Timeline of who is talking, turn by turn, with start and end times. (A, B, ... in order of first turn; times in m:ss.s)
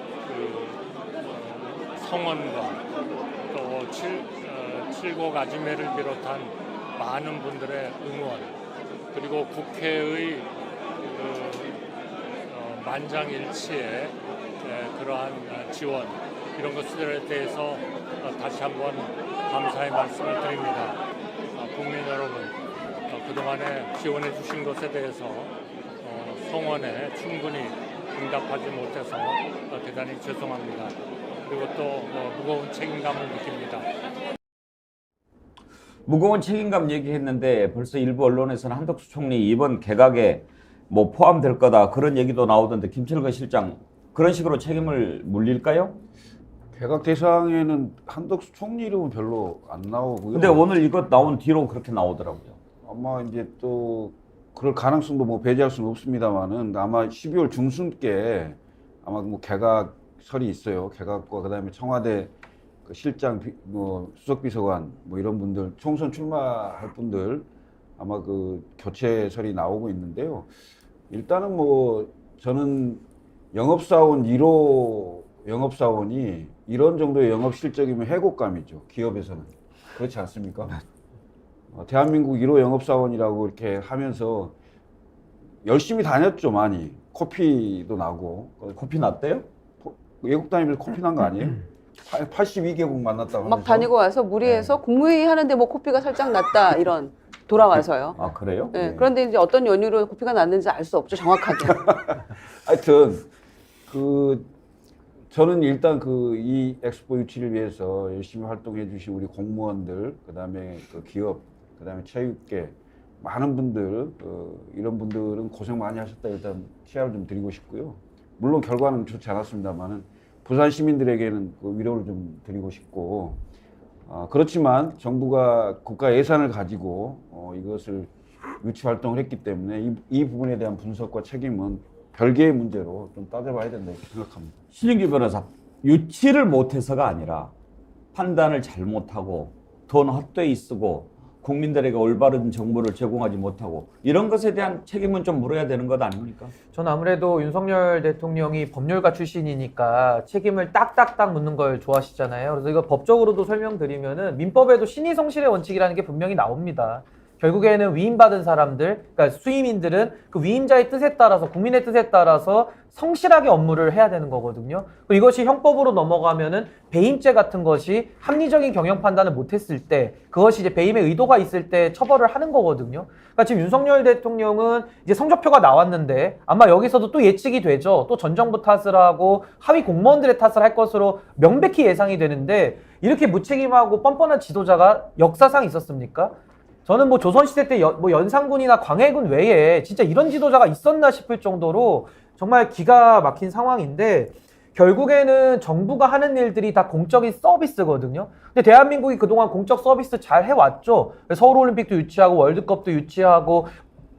0:00.3-0:02.8 A
0:03.5-0:08.5 A
0:09.1-0:11.8 A
0:12.5-0:21.0 A
0:21.6-0:22.6 A
0:23.1-0:33.9 A
0:36.1-0:46.0 B
0:46.7-0:50.6 C
0:50.3-0:52.6 B
0:52.8-1:02.3 C
1:02.9-1:07.5 C
1:08.0-1:10.5 C
1:11.1-1:20.8 C
1:21.7-1:24.5 C
1:25.6-1:28.8 C
1:28.8-1:29.5 B
1:29.8-1:33.9 C
1:33.4-1:38.2 D
1:38.2-1:38.8 B
1:38.7-1:41.8 D
1:42.6-1:43.3 C
1:43.9-1:44.5 C
1:45.3-2:03.4 C
2:04.1-2:14.6 C
2:14.7-2:17.5 B
2:18.1-2:26.5 B
2:26.7-3:23.8 E